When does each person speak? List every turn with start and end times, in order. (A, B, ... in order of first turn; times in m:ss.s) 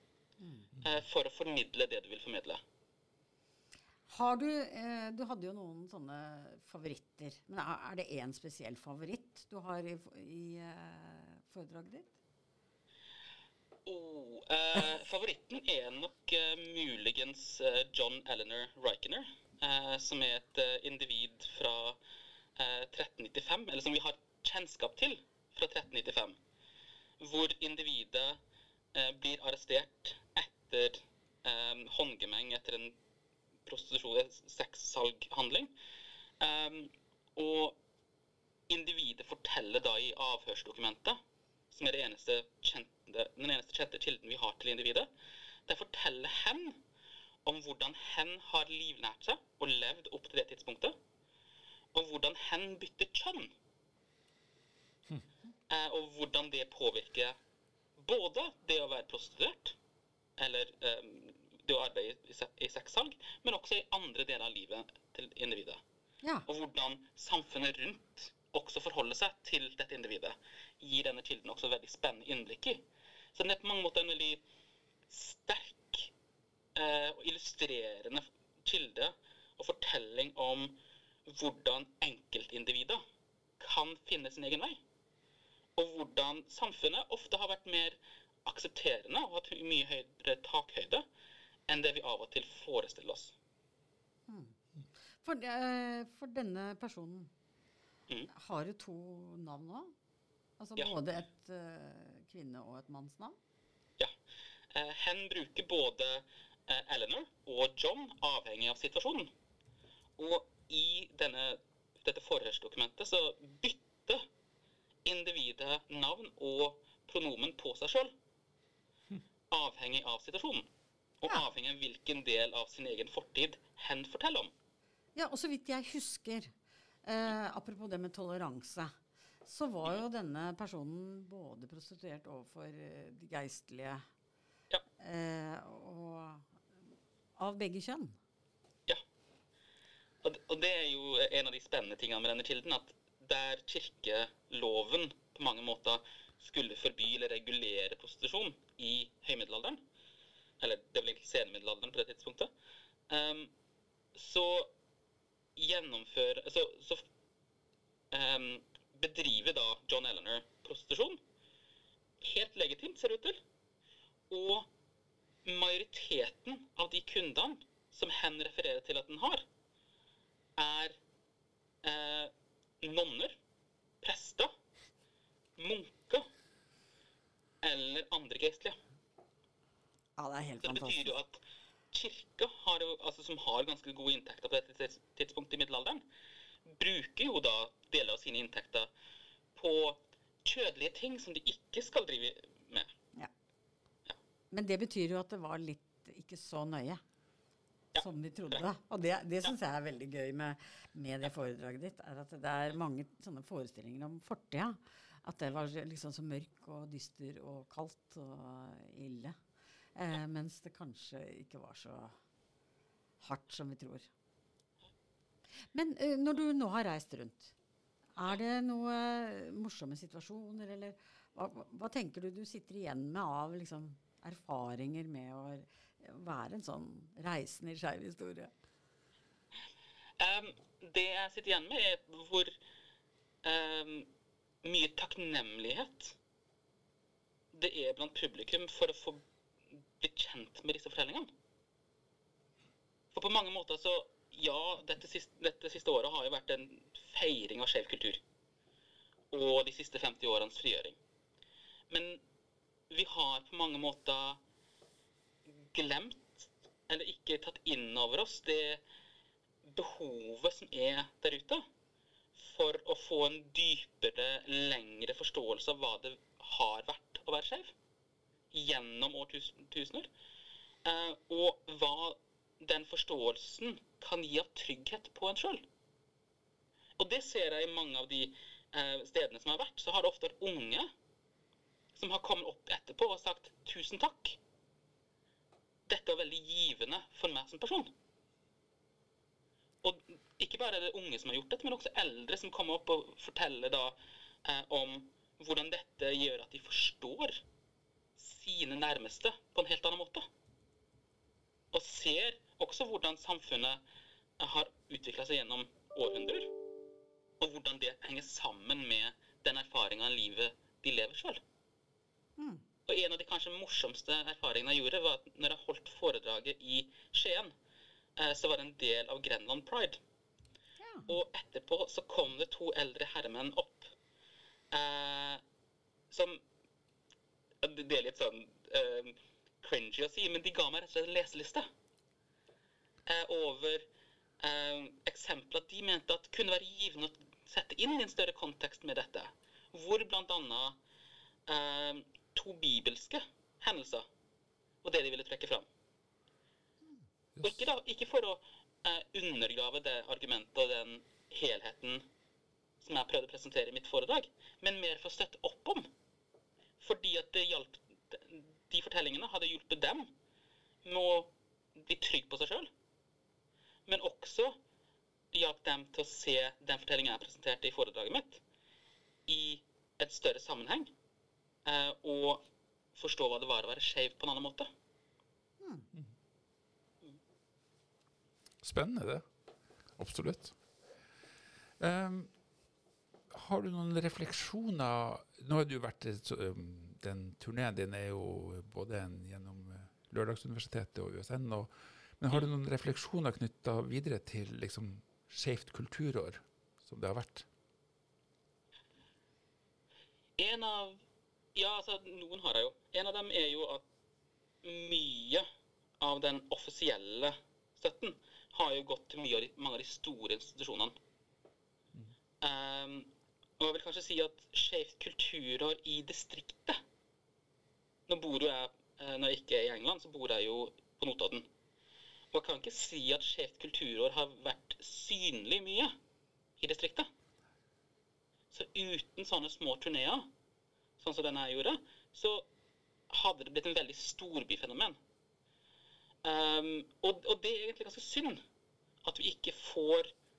0:00.4-0:00.7 A
0:00.8-0:02.6 B
0:04.1-0:12.2 A
0:13.8-0:22.0 B
0:22.6-0:26.4 B
0:27.2-0:28.4 B
0:28.9-0:33.0 B
0:33.7-0:35.7 B
0:36.4-0:37.8 B
0:38.7-0:41.2 B
0:41.7-0:45.1 B
0:45.7-0:46.8 B
0:47.4-0:51.0 B
0:51.9-0:53.5 B
0:55.7-0:57.4 B
0:58.0-0:59.8 B
1:00.4-1:05.8 B
1:06.4-1:12.8 B
1:13.3-1:14.4 B
1:15.1-1:16.1 B
1:16.7-1:23.0 B
1:23.6-1:24.8 B
1:25.8-1:31.0 B
1:31.7-1:33.3 B
1:34.3-1:34.6 A
1:35.2-1:37.3 A
1:38.3-1:39.9 A
1:40.6-1:43.4 A
1:44.7-1:49.3 B
1:50.2-1:54.3 B
1:55.0-1:58.1 B
1:59.5-2:00.7 B
2:01.2-2:04.5 B
2:05.2-2:06.5 A
2:07.0-2:08.9 A
2:09.4-2:14.0 A
2:15.0-2:16.5 A
2:17.4-2:18.2 A
2:20.2-2:29.8 B
2:30.6-2:32.5 B
2:33.1-2:33.5 B
2:34.2-2:34.7 B
2:35.6-2:37.1 B
2:38.1-2:41.2 B
2:42.2-2:43.4 B
2:44.3-2:44.7 B
2:45.4-2:49.5 B
2:50.6-2:51.0 B
2:51.8-2:53.4 B
2:54.0-2:54.5 B
2:55.6-2:56.3 B
2:57.6-2:58.8 B
3:00.2-3:01.2 A
3:00.6-3:06.0 B
3:06.7-3:08.9 B
3:09.5-3:12.9 B
3:14.5-3:17.0 A
3:17.9-3:18.6 B
3:18.0-3:29.3 A
3:29.9-3:32.2 A
3:33.2-3:34.1 A
3:35.7-3:37.5 A
3:38.2-3:48.5 A
3:50.2-3:52.6 B
3:53.4-3:54.1 B
3:54.6-3:56.2 B
3:57.5-4:01.3 B
4:03.1-4:08.2 B
4:09.3-4:11.0 B
4:11.9-4:12.2 B
4:12.9-4:14.4 B
4:15.5-4:18.8 B
4:19.6-4:21.6 B
4:22.4-4:27.7 B
4:28.5-4:30.1 B
4:30.8-4:35.7 B
4:37.0-4:40.9 B
4:41.9-4:44.4 B
4:45.9-4:47.9 B
4:49.8-4:57.4 B
4:58.2-5:00.3 B
5:01.7-5:03.8 B
5:04.4-5:06.5 B
5:07.4-5:11.4 B
5:12.4-5:12.6 A
5:12.9-5:17.5 B
5:18.2-5:20.0 B
5:20.8-5:21.1 A
5:21.1-5:23.9 B
5:24.7-5:25.4 B
5:26.1-5:26.4 B
5:27.6-5:31.7 B
5:33.0-5:33.8 B
5:34.4-5:40.8 B
5:41.5-5:44.1 B
5:44.8-5:45.6 B
5:47.4-5:47.6 C
5:47.4-5:52.0 B
5:52.8-5:55.9 B
5:56.8-6:00.1 B
6:00.8-6:02.7 B
6:03.9-6:04.6 B
6:05.3-6:08.4 B
6:09.3-6:10.9 B
6:11.6-6:12.4 B
6:13.0-6:14.7 B
6:15.6-6:15.9 A
6:18.6-6:19.2 C
6:20.0-6:20.6 C
6:21.8-6:22.3 C
6:23.3-6:37.5 C
6:40.4-6:41.0 B
6:41.6-6:43.8 B
6:44.6-6:45.5 B
6:46.0-6:50.9 B
6:52.4-6:56.8 B
6:58.1-7:01.5 B
7:02.3-7:06.0 B
7:06.6-7:07.1 B
7:08.5-7:10.3 B
7:11.0-7:12.5 B
7:13.1-7:15.0 B
7:16.2-7:18.4 B
7:19.0-7:20.1 B